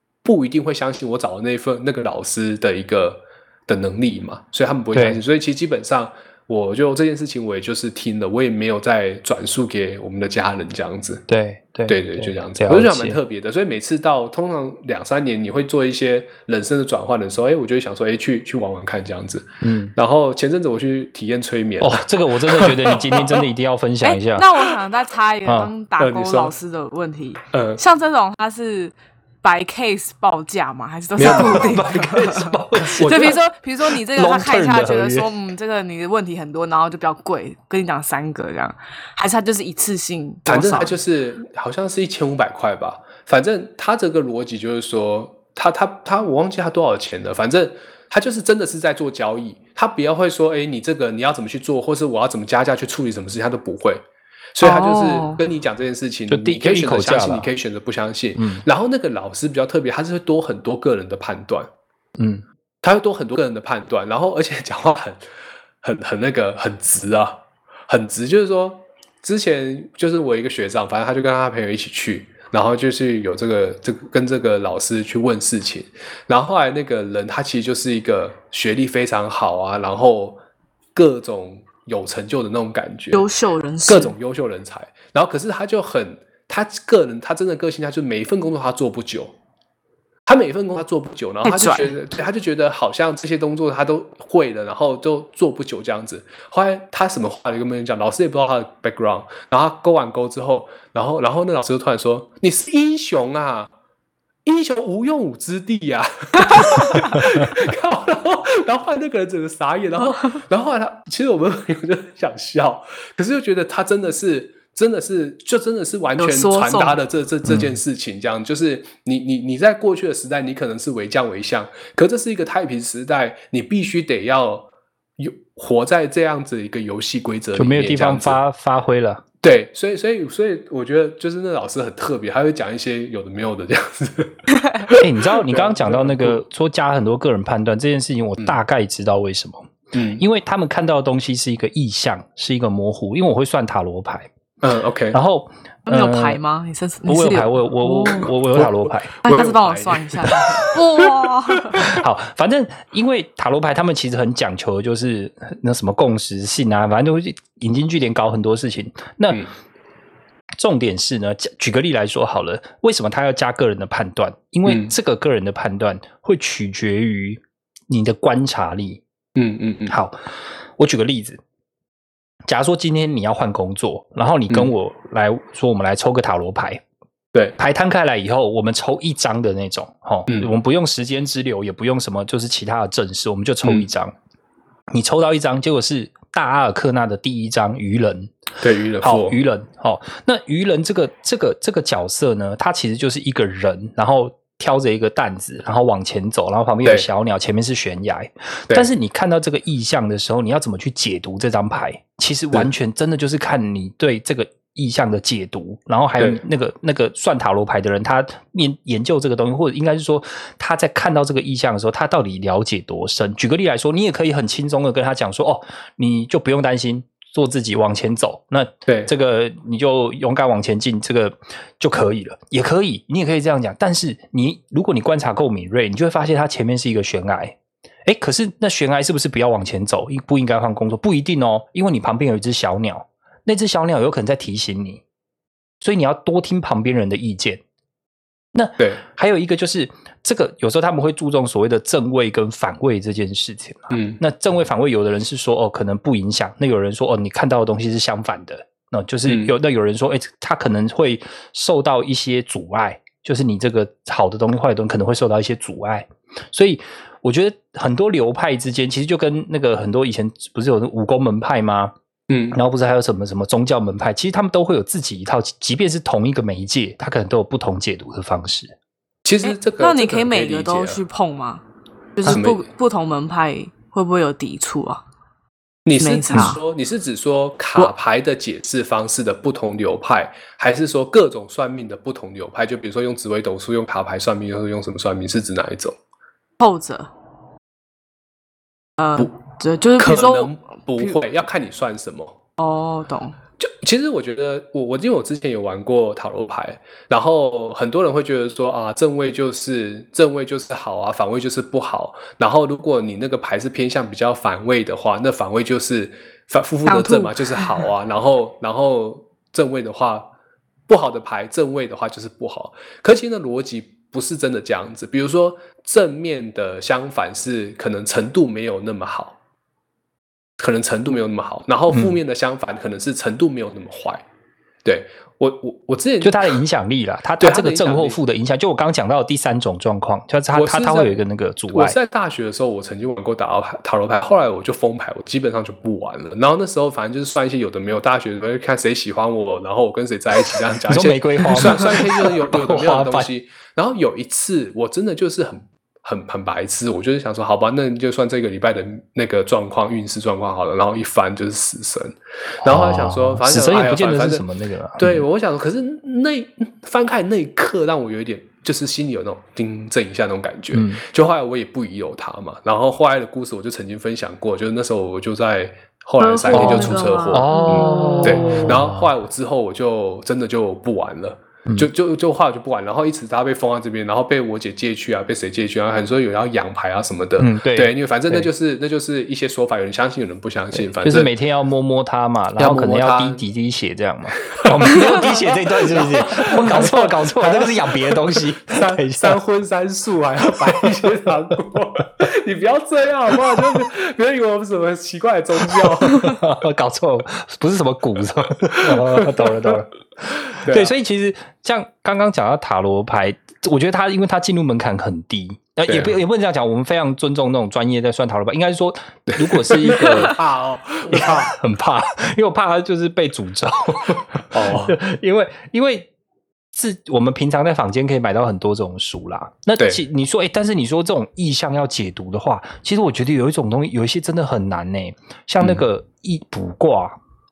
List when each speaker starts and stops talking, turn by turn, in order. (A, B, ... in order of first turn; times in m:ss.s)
0:00.2-0:11.2 A
0:04.9-0:05.2 B
0:11.3-0:13.2 B
0:11.9-0:23.4 A
0:19.6-0:19.9 B
0:21.8-0:24.5 B
0:24.0-0:41.0 C
0:25.4-0:25.7 B
0:26.0-0:26.5 A
0:27.5-0:27.8 A
0:31.2-0:31.8 A
0:31.2-0:35.3 B
0:32.9-0:33.4 A
0:40.4-0:54.0 A
0:54.5-1:01.7 A
0:54.6-0:55.4 C
0:56.3-0:57.5 B
0:58.4-0:58.6 B
1:02.2-1:02.4 B
1:02.8-1:05.2 A
1:05.8-1:20.4 A
1:20.9-1:23.2 A
1:23.1-1:24.1 C
1:23.8-1:29.3 A
1:30.3-1:43.7 A
1:31.4-1:31.9 C
1:44.4-2:08.4 A
1:56.2-1:57.0 C
1:57.5-1:57.7 B
2:07.6-2:09.2 B
2:09.4-2:16.4 A
2:15.0-2:24.3 B
2:19.9-2:20.2 A
2:24.6-2:25.2 A
2:25.1-2:26.4 B
2:25.9-2:28.3 C
2:27.1-2:29.1 B
2:28.5-2:32.0 A
2:29.2-2:31.9 C
2:31.8-2:39.4 B
2:40.6-2:49.0 B
2:44.6-2:44.9 A
2:49.4-2:50.0 A
2:49.9-2:50.2 B
2:50.8-2:51.4 B
2:52.4-2:56.8 B
2:57.6-3:04.1 B
3:04.9-3:08.3 B
3:08.6-3:09.4 A
3:09.0-3:55.0 B
3:38.8-3:39.1 A
3:55.8-3:57.6 B
3:58.5-4:21.9 B
4:03.9-4:04.2 A
4:09.2-4:09.5 A
4:22.3-4:22.6 A
4:22.5-4:28.8 B
4:29.2-4:31.0 A
4:29.4-4:31.6 C
4:32.2-4:35.0 C
4:32.2-4:32.6 A
4:35.8-4:46.0 A
4:36.0-4:36.6 C
4:46.6-4:47.1 C
4:49.0-4:51.2 C
4:50.0-4:52.4 A
4:52.6-4:53.4 C
4:53.6-5:10.3 A
5:06.8-5:07.9 C
5:10.9-5:19.4 A
5:20.6-5:24.2 A
5:21.9-5:22.2 B
5:24.8-5:26.5 A
5:26.2-5:32.0 B
5:27.4-5:28.2 A
5:30.5-5:31.2 A
5:31.7-5:54.4 A
5:40.9-5:43.3 B
5:52.6-5:55.2 B
5:55.0-6:21.3 A
6:00.7-6:01.0 B
6:06.2-6:08.7 C
6:06.5-6:09.1 B
6:17.4-6:18.5 B
6:20.8-6:29.4 B
6:22.6-6:23.4 A
6:24.5-6:36.4 A
6:35.7-6:50.4 B
6:38.7-6:39.8 A
6:40.4-6:40.9 A
6:45.9-6:46.2 A
6:49.3-6:51.5 A
6:51.1-6:56.1 B
6:54.5-6:55.0 A
6:56.7-7:07.2 B